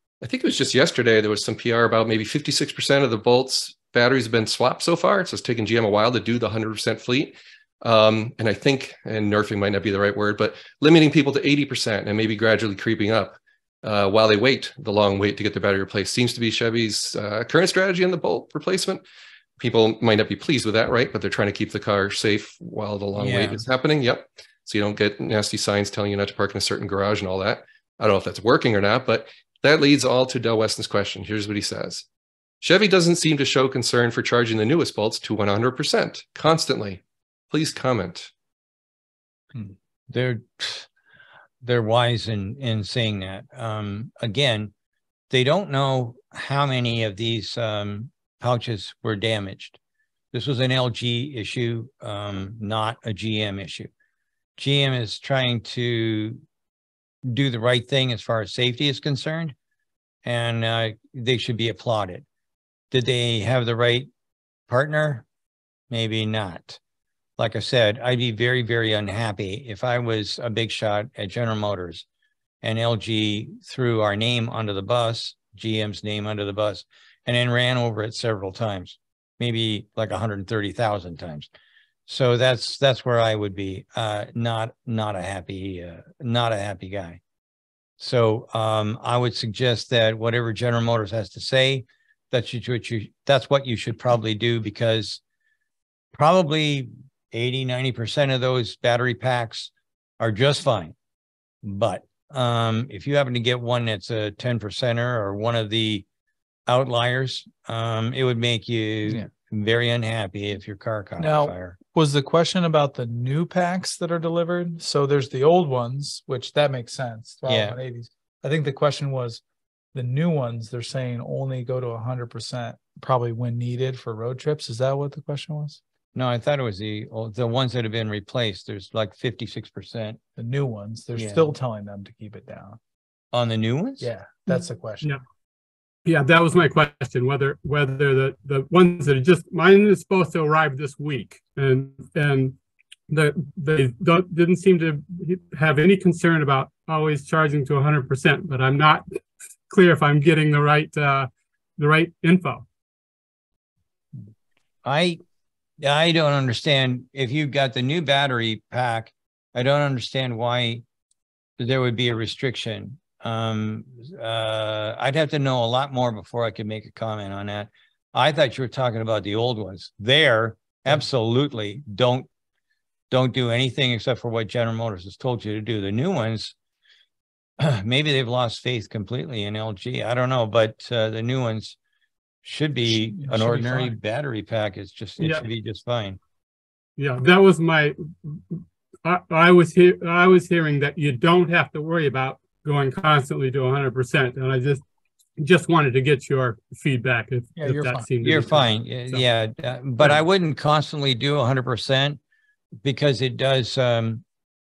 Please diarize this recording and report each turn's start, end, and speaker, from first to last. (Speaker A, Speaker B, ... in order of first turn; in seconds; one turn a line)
Speaker A: 0.2-19.0
Speaker A: 19.6-32.0
Speaker B: 23.2-23.6
Speaker A: 32.6-38.3
Speaker B: 40.1-40.9
Speaker B: 41.6-44.7
Speaker B: 45.3-49.8
Speaker B: 50.3-53.9
Speaker B: 54.6-56.4
Speaker B: 57.2-59.5
Speaker B: 60.2-62.2
Speaker B: 62.9-64.1
Speaker B: 64.7-65.2
Speaker B: 65.9-66.8
Speaker B: 67.4-72.1
Speaker B: 72.6-81.5
Speaker B: 82.1-87.2
Speaker B: 88.0-95.2
Speaker B: 96.1-101.0
Speaker B: 101.6-106.0
Speaker B: 106.7-111.8
Speaker C: 111.2-119.4
Speaker B: 117.5-117.8
Speaker C: 120.0-125.8
Speaker B: 126.2-130.2
Speaker C: 130.4-132.8
Speaker B: 131.2-131.5
Speaker B: 133.3-134.1
Speaker C: 134.0-135.1
Speaker D: 136.1-142.6
Speaker D: 143.1-149.2
Speaker D: 149.7-152.7
Speaker B: 154.8-155.2
Speaker B: 155.8-160.8
Speaker B: 161.6-172.3
Speaker B: 173.1-176.6
Speaker B: 177.6-181.8
Speaker B: 182.4-186.2
Speaker C: 182.9-183.9
Speaker D: 185.2-185.4
Speaker D: 187.0-194.8
Speaker D: 195.4-199.2
Speaker C: 197.6-198.1
Speaker B: 198.2-202.2
Speaker B: 202.8-204.2